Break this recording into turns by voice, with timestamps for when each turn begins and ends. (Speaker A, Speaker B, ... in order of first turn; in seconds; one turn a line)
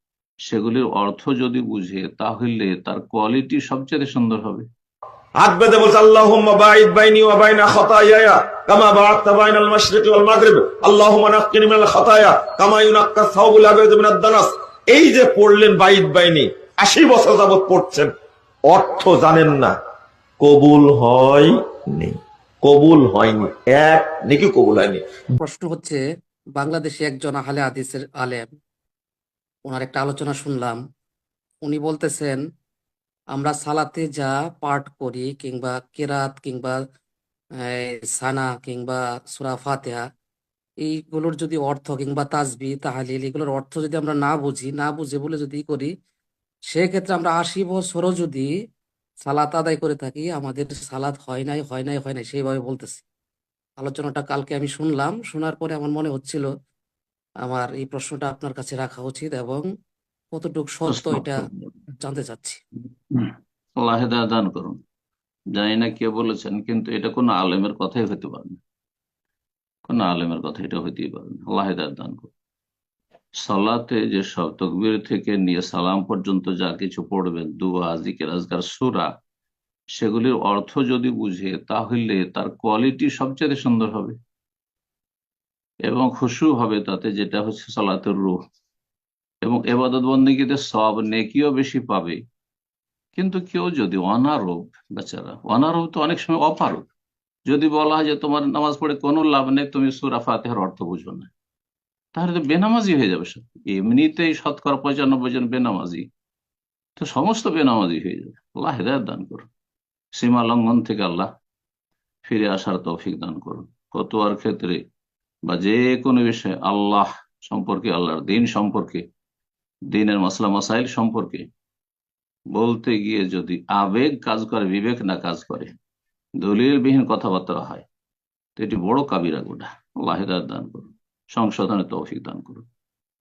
Speaker A: 0.4-4.7
Speaker B: 5.4-18.1
Speaker B: 18.7-19.8
Speaker B: 20.4-25.2
Speaker C: 25.4-26.0
Speaker C: 26.6-28.5
Speaker C: 29.6-30.8
Speaker C: 31.6-32.4
Speaker C: 33.3-36.8
Speaker C: 37.6-40.0
Speaker C: 40.9-45.9
Speaker C: 46.7-48.5
Speaker C: 49.2-53.0
Speaker C: 53.8-56.5
Speaker C: 57.5-59.6
Speaker C: 60.3-61.4
Speaker A: 60.9-61.7
Speaker C: 62.0-62.6
Speaker A: 63.1-64.8
Speaker A: 65.5-68.6
Speaker A: 69.9-72.3
Speaker A: 73.4-79.1
Speaker A: 79.9-84.2
Speaker A: 85.9-88.4
Speaker A: 89.4-92.2
Speaker A: 93.2-96.9
Speaker A: 97.5-101.3
Speaker A: 102.1-106.1
Speaker A: 107.0-109.5
Speaker A: 110.1-111.3
Speaker A: 112.2-114.8
Speaker A: 115.5-119.1
Speaker A: 119.9-121.5
Speaker A: 122.5-125.7
Speaker A: 126.4-127.8
Speaker A: 128.6-132.7